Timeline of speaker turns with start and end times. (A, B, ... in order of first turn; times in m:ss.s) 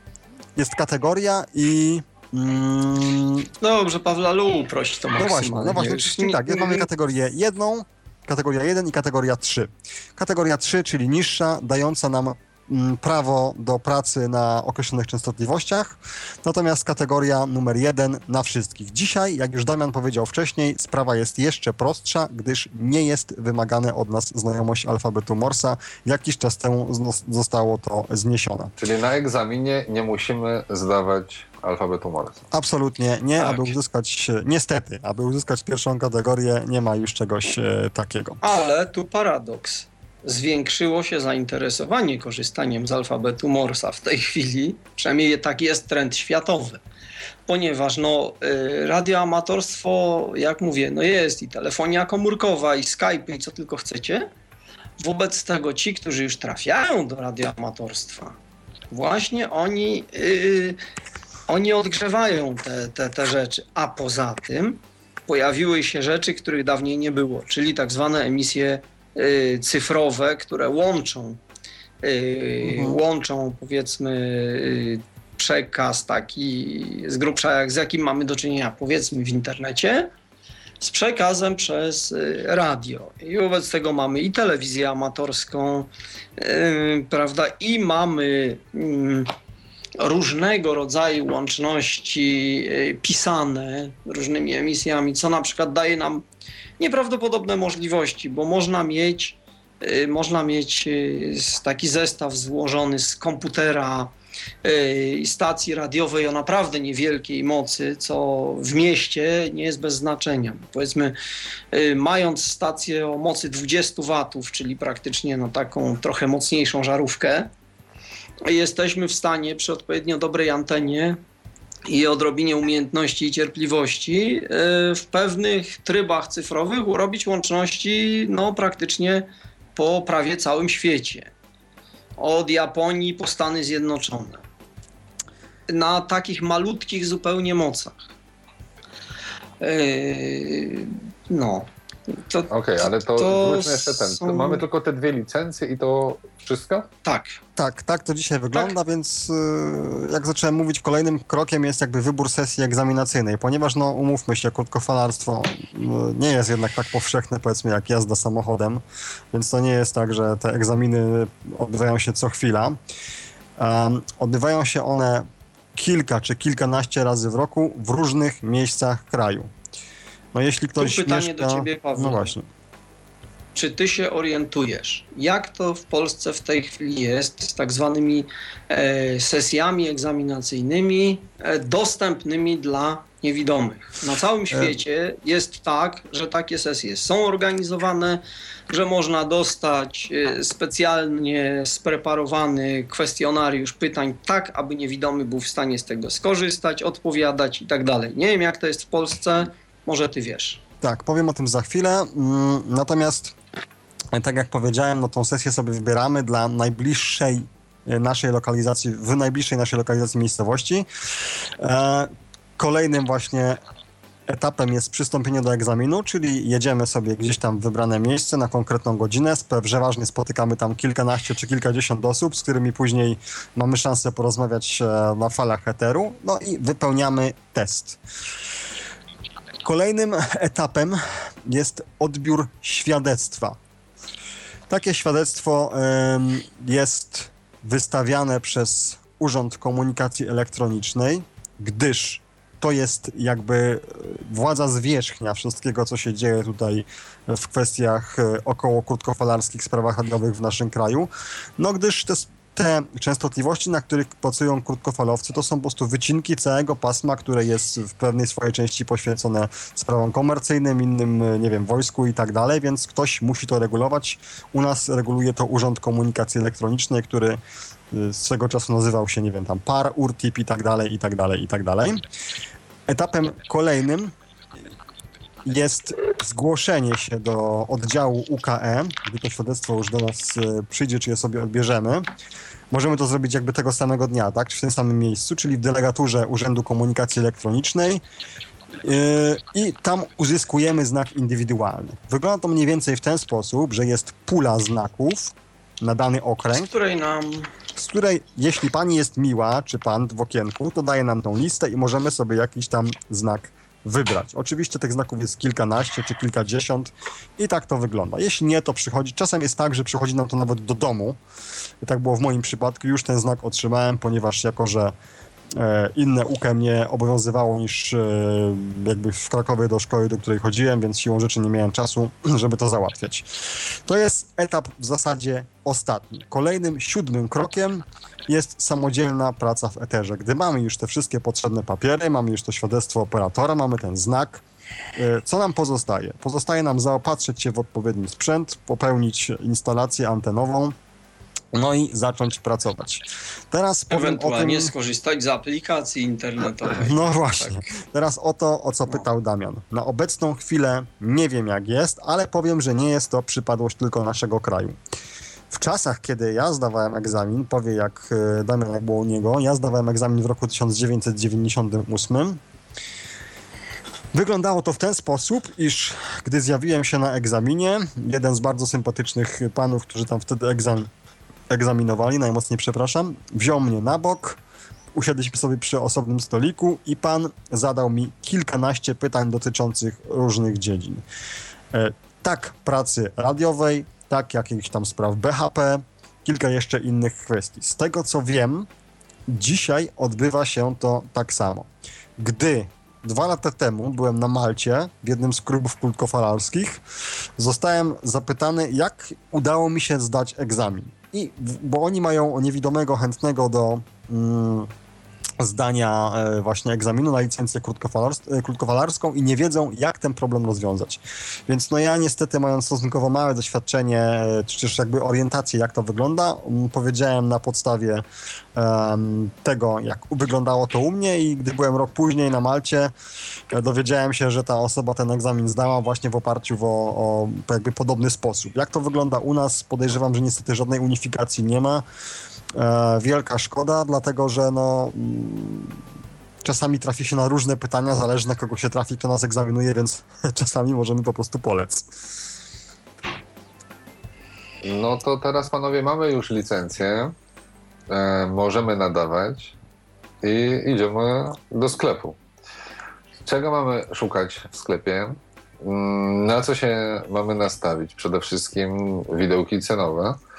0:00.6-0:03.5 A
0:03.6-0:06.9 B
0:05.2-0:28.7 A
0:28.8-0:32.4 C
0:32.5-0:38.4 A
0:33.4-0:33.8 B
0:38.4-0:46.8 B
0:47.5-0:54.3 B
0:55.0-0:58.4 B
0:58.9-1:00.8 B
1:01.5-1:11.4 B
1:12.0-1:20.1 B
1:12.6-1:13.0 A
1:20.8-1:29.3 B
1:30.0-1:36.2 B
1:36.8-1:44.1 B
1:44.6-1:51.2 B
1:51.7-1:57.5 B
1:58.4-2:01.2 B
2:01.9-2:11.3 B
2:12.2-2:14.4 B
2:15.7-2:18.1 B
2:19.6-2:24.6 B
2:22.5-2:26.9 C
2:27.0-2:27.4 B
2:27.6-2:42.8 A
2:43.6-2:49.5 A
2:50.3-2:52.5 A
2:50.8-2:52.3 B
2:53.6-3:20.6 B
3:04.5-3:04.8 A
3:20.8-3:23.4 A
3:24.1-3:30.9 A
3:31.6-3:33.6 A
3:34.3-3:48.0 A
3:49.6-3:53.6 A
3:54.7-4:27.4 A
4:27.9-4:32.0 A
4:32.9-4:34.1 A
4:35.4-4:42.1 A
4:42.7-4:48.0 A
4:48.8-4:56.7 A
4:56.5-4:57.5 B
4:57.8-5:11.2 A
5:11.8-5:14.9 A
5:15.5-5:23.3 A
5:23.9-5:34.4 A
5:35.0-5:40.8 A
5:41.5-5:44.7 A
5:43.9-5:47.7 B
5:46.8-5:54.8 A
5:55.5-6:02.4 A
6:04.1-6:10.9 A
6:11.5-6:14.4 A
6:14.9-6:21.0 A
6:21.7-6:28.7 A
6:29.3-6:36.8 A
6:37.4-6:44.7 A
6:45.4-6:58.0 A
6:58.6-7:02.9 A
7:03.5-7:11.8 A
7:12.6-7:15.8 A
7:16.4-7:21.9 A
7:24.6-7:27.1 C
7:27.9-7:29.6 C
7:30.2-7:32.2 C
7:33.3-7:40.2 C